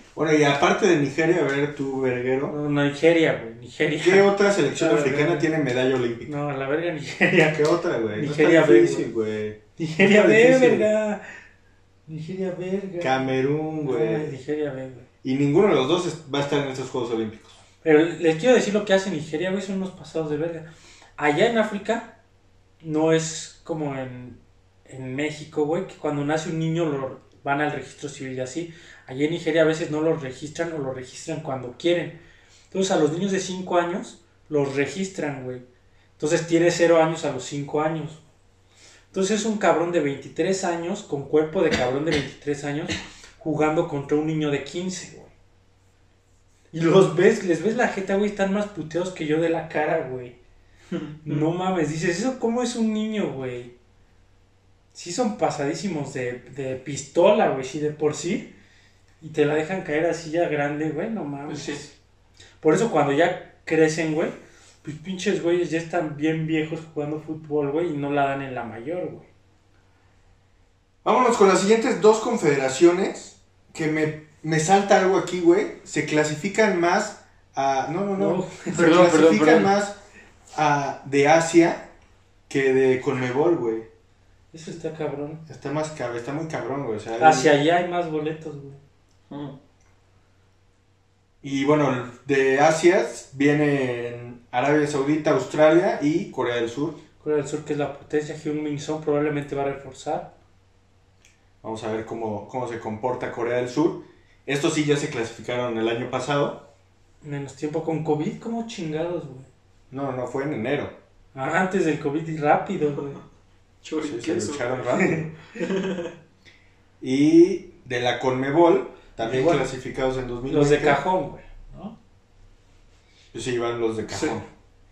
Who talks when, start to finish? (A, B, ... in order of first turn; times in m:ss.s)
0:00.1-0:02.5 A
0:02.5-0:05.4 B
0:04.0-0:06.3 A
0:06.2-0:07.6 B
0:07.5-0:10.9 A
0:08.1-0:09.1 B
0:09.8-0:11.2 B
0:12.1-0:13.2 B
0:13.0-0:14.4 A
0:13.8-0:15.0 B
0:15.2-0:17.6 A
0:17.8-0:22.1 B
0:22.8-0:32.2 B
0:32.7-0:35.6 B
0:36.2-0:38.2 B
0:39.1-0:45.3 B
0:46.7-0:50.3 B
0:50.9-0:51.4 C
0:51.2-0:53.7 B
0:54.9-0:58.5 B
0:59.2-1:01.9 B
1:01.5-1:01.9 C
1:02.6-1:09.3 B
1:11.0-1:20.0 A
1:18.2-1:19.0 B
1:18.7-1:19.7 C
1:20.5-1:21.9 A
1:22.5-1:23.9 A
1:24.5-1:25.4 B
1:25.5-1:27.5 A
1:27.2-1:28.8 B
1:29.3-1:29.5 C
1:31.4-1:37.0 A
1:37.2-1:40.3 B
1:41.6-1:46.7 A
1:47.2-1:49.5 B
1:49.9-1:51.0 A
1:51.3-1:53.2 B
1:53.8-1:55.0 C
1:54.0-1:55.3 A
1:55.5-1:56.1 C
1:57.0-2:01.0 A
1:59.2-1:59.6 B
1:59.3-1:59.6 C
2:00.5-2:01.9 B
2:03.3-2:04.4 A
2:04.0-2:04.4 C